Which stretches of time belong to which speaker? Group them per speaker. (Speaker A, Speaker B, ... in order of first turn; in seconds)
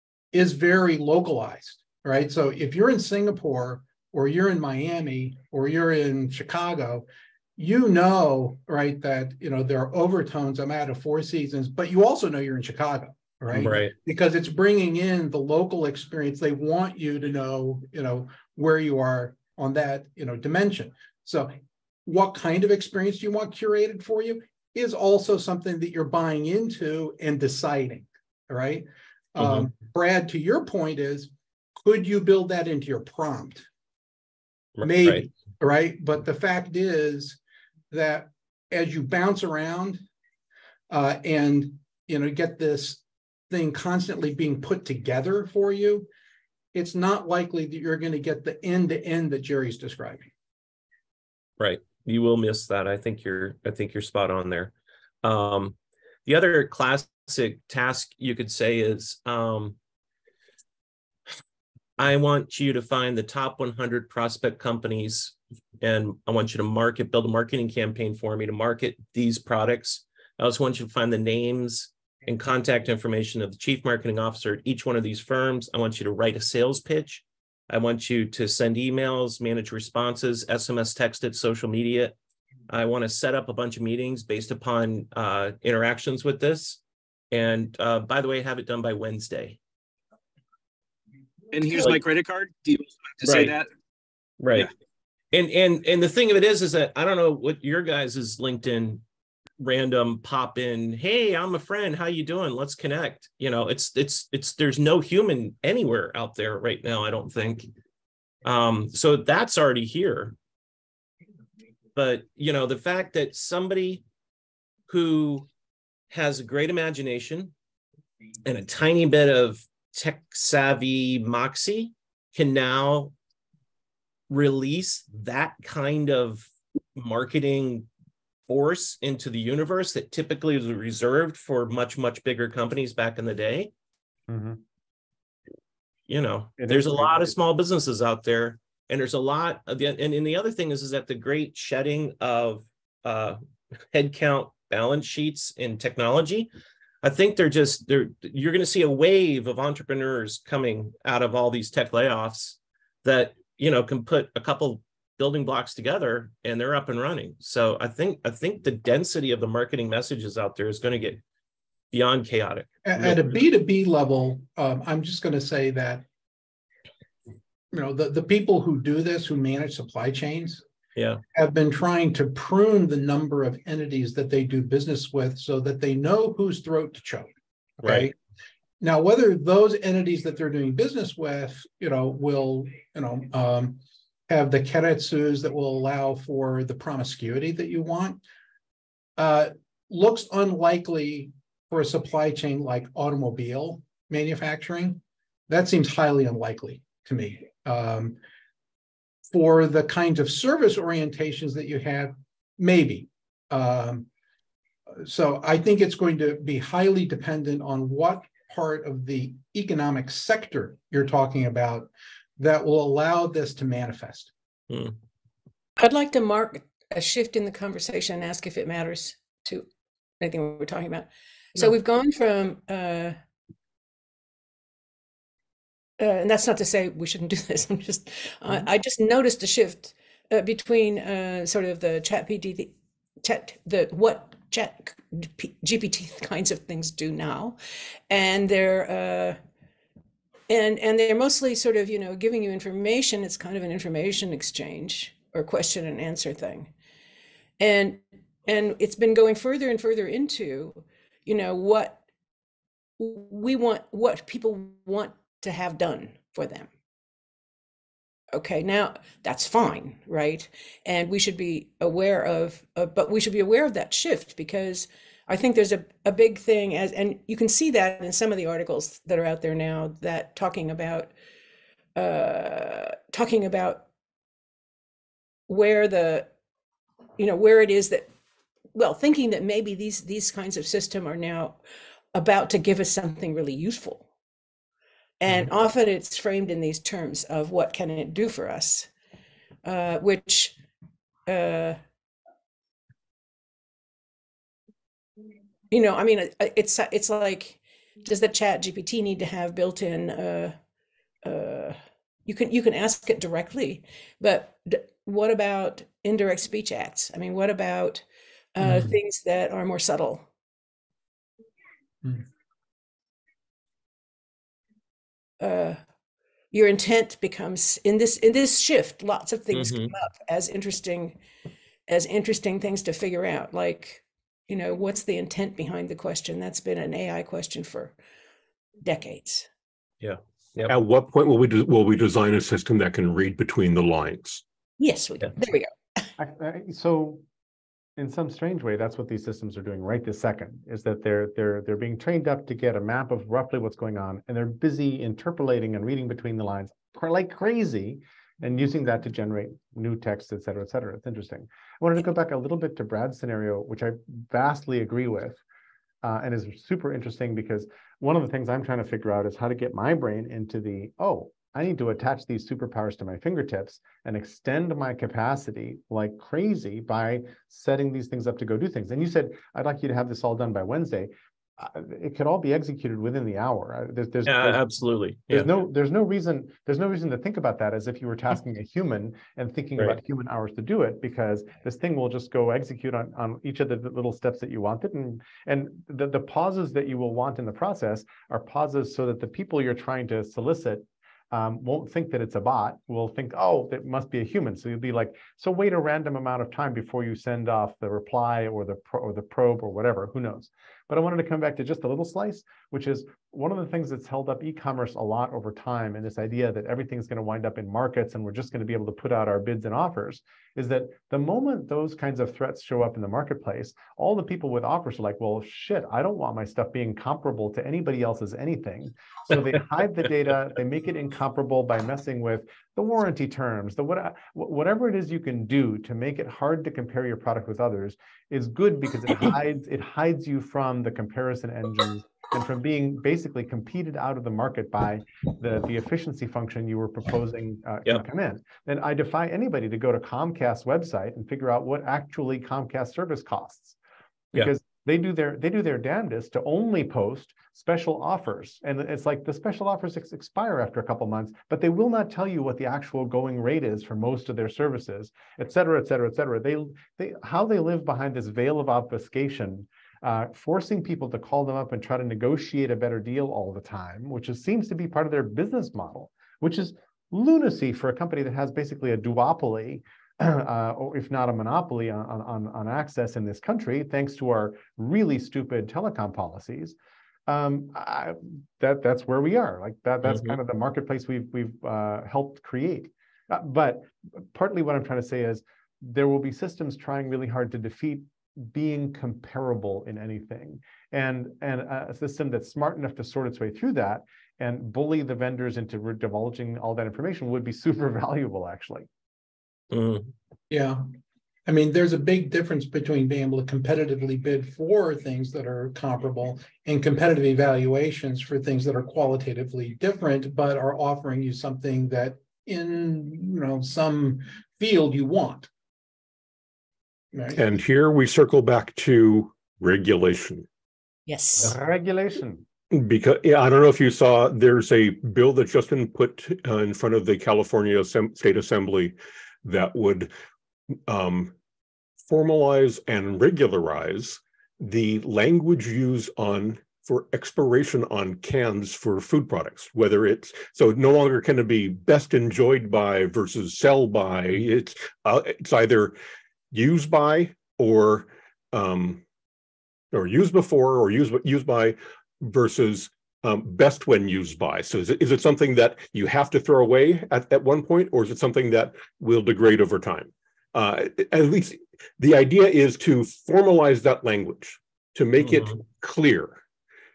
Speaker A: 0.3-33.7, 34.8-37.4, 37.9-40.0, 40.9-46.1, 46.7-50.3, 162.8-166.0, 167.7-170.6, 171.3-177.3, 177.8-178.2, 178.8-188.2, 189.2-198.2, 199.3-204.1, 204.9-214.3, 308.6-308.9, 500.5-500.9, 501.5-515.5, 517.1-517.4
Speaker B: 13.5-13.9, 29.4-29.7, 34.8-35.3, 51.6-59.8, 62.0-82.2, 82.7-86.8, 87.3-89.6, 93.2-93.5, 94.4-94.7, 95.3-99.0, 99.6-107.7, 108.5-110.4, 112.0-114.0, 114.9-115.5, 116.1-117.5, 118.5-123.1, 124.3-127.9, 128.5-133.7, 136.1-143.4, 143.9-146.5, 147.0-161.2, 161.9-163.4, 171.0-171.2, 177.8-178.1, 214.7-215.0, 319.5-319.9, 330.0-330.8, 374.3-375.5, 480.1-480.4, 499.7-500.1, 565.2-565.5
Speaker C: 91.5-93.7
Speaker D: 134.3-134.6, 136.6-137.3, 336.2-337.2, 338.0-355.4, 356.0-374.7, 375.3-443.8, 444.3-476.8, 477.3-498.9, 521.4-522.5
Speaker E: 215.8-219.7, 220.2-223.2, 226.0-237.6, 238.1-239.4, 240.5-246.7, 247.6-252.0, 253.0-256.7, 258.3-271.1, 272.0-273.9, 275.5-276.3, 277.2-278.1, 278.8-281.6, 282.1-284.1, 285.2-288.9, 289.6-290.6, 291.3-291.8, 295.7-300.6, 301.2-308.0, 308.6-310.3, 315.4-315.8, 316.5-321.2, 321.9-327.9, 328.8-329.5, 334.8-335.7, 521.1-521.5
Speaker F: 330.7-334.4, 517.4-520.5, 522.7-530.1, 530.9-531.3, 532.0-546.0, 546.5-549.0, 549.9-566.4